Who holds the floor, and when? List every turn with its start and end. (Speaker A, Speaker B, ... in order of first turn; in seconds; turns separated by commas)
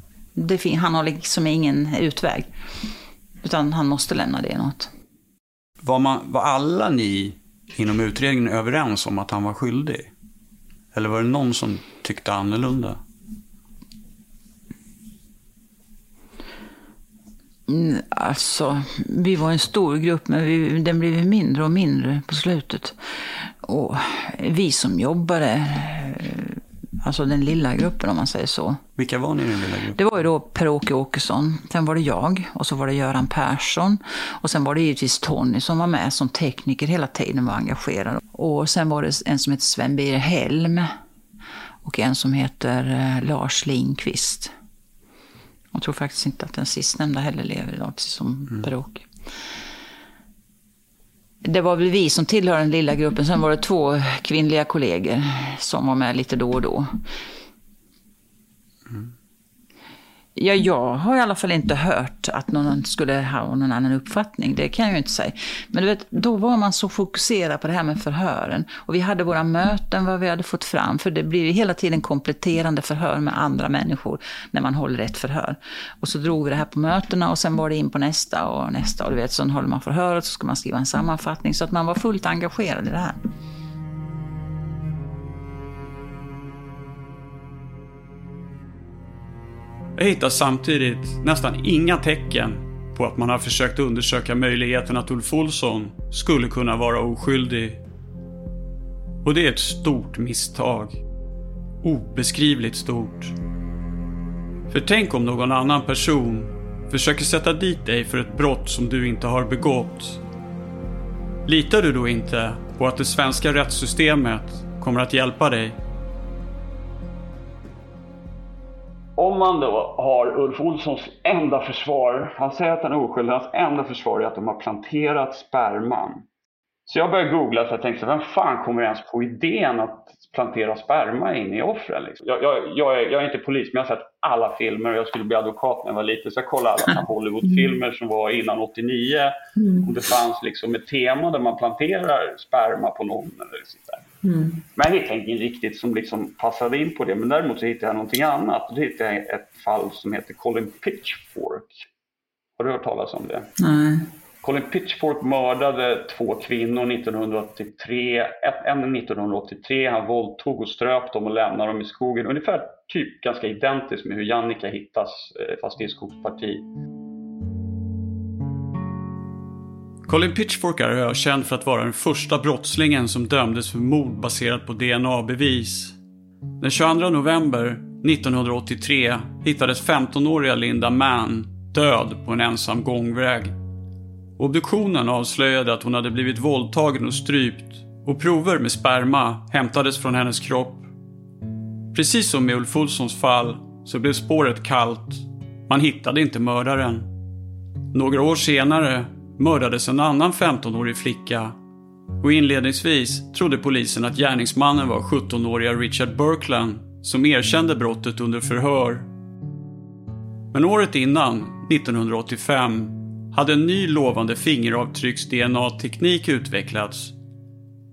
Speaker A: 0.3-2.5, Speaker A: 3.4-4.9, Speaker B: 5.8-10.1, Speaker B: 10.9-13.0, Speaker A: 17.7-28.8, Speaker B: 29.0-30.0, Speaker A: 29.9-40.9, Speaker A: 41.8-44.5, Speaker A: 45.7-49.1, Speaker A: 51.4-56.9, Speaker A: 60.4-83.2, Speaker B: 90.0-97.8, Speaker B: 99.2-101.0, Speaker B: 101.8-103.3, Speaker B: 104.7-110.2, Speaker B: 111.5-115.8, Speaker C: 119.2-126.2, Speaker C: 126.9-144.0, Speaker A: 139.6-139.9, Speaker A: 144.2-144.6, Speaker C: 144.7-151.8, Speaker C: 152.6-153.5, Speaker A: 153.6-154.1, Speaker C: 154.4-166.7, Speaker B: 170.1-175.9, Speaker B: 176.6-183.5, Speaker B: 184.4-190.9, Speaker B: 191.9-197.1, Speaker B: 197.9-201.6, Speaker B: 202.2-209.1, Speaker B: 210.5-217.1